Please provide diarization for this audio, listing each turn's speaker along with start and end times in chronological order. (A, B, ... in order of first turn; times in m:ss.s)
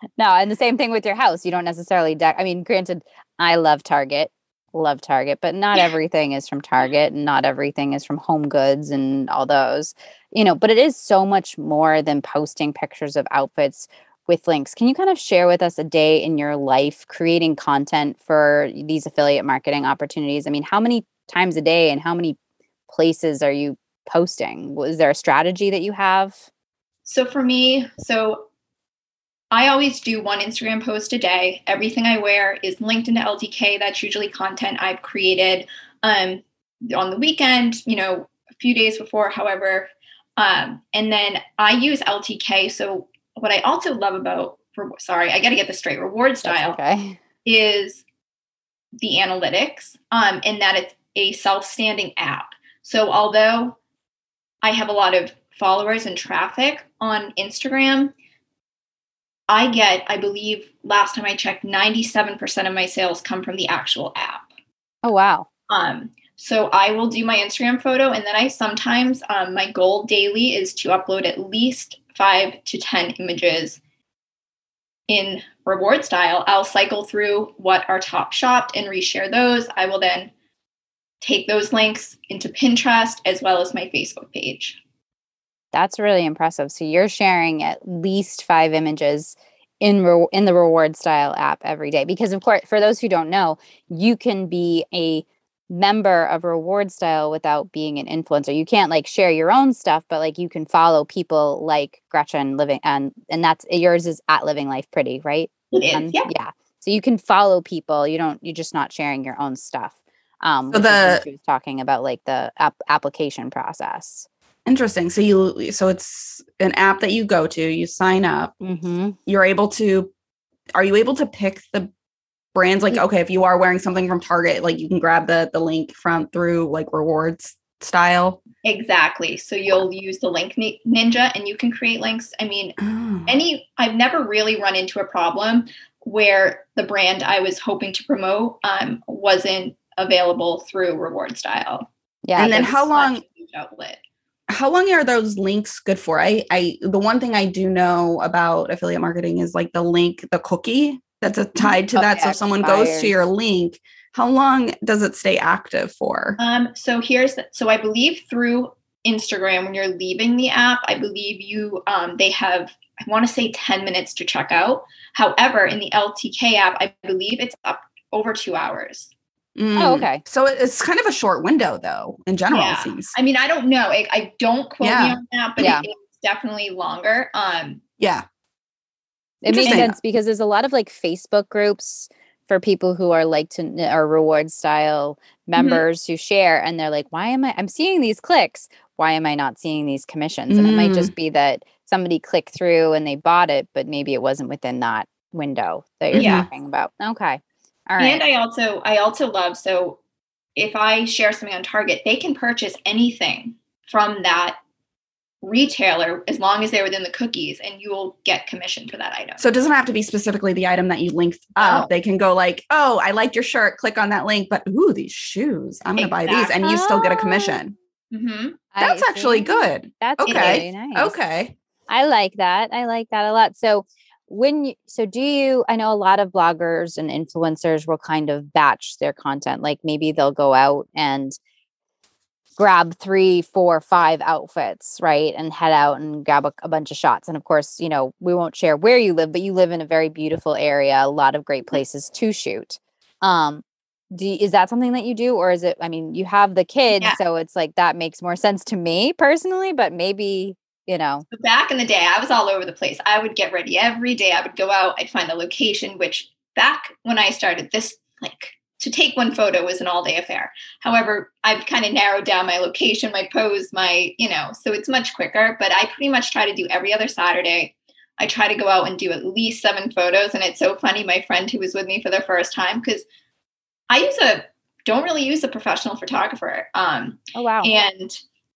0:00.2-0:22.4 A
0:22.9-0:26.4 A
0:27.0-0:28.4 B
0:29.5-0:46.8 B
0:46.4-0:47.2 A
0:47.4-0:48.0 B
0:49.0-0:53.8 B
0:54.6-0:58.1 B
0:59.5-1:04.5 B
1:05.0-1:05.5 A
1:05.7-1:13.8 B
1:15.1-1:20.3 B
1:21.2-1:24.8 B
1:25.7-1:54.3 A
1:45.7-1:46.3 B
1:50.7-1:51.2 C
1:54.6-1:58.5 C
1:58.6-1:59.2 A
1:59.3-2:00.1 C
2:00.8-2:01.9 C
2:02.5-2:08.4 C
2:08.6-2:24.0 B
2:12.8-2:13.4 C
2:22.3-2:22.7 A
2:22.4-2:23.2 C
2:24.5-2:36.4 C
2:31.9-2:33.1 A
2:36.4-2:49.1 B
2:49.6-2:53.1 C
2:49.8-2:50.2 A
2:52.5-2:57.8 B
2:54.8-2:55.2 C
2:55.6-2:55.8 A
2:58.0-2:58.2 C
2:59.4-3:18.2 A
2:59.5-2:59.8 B
2:59.5-2:59.9 C
3:05.6-3:05.8 B
3:10.5-3:11.1 C
3:16.1-3:16.5 C
3:16.1-3:16.5 B
3:18.0-3:20.0 B
3:20.6-3:24.6 B
3:25.4-3:29.4 B
3:29.4-3:37.7 C
3:36.0-3:36.6 B
3:36.6-3:37.6 A
3:38.1-3:38.6 B
3:38.7-3:41.2 A
3:38.8-3:41.5 C
3:40.2-3:40.6 B
3:41.9-3:51.4 A
3:52.6-4:11.2 A
4:11.3-4:33.0 B
4:33.9-4:38.2 B
4:37.3-4:37.8 A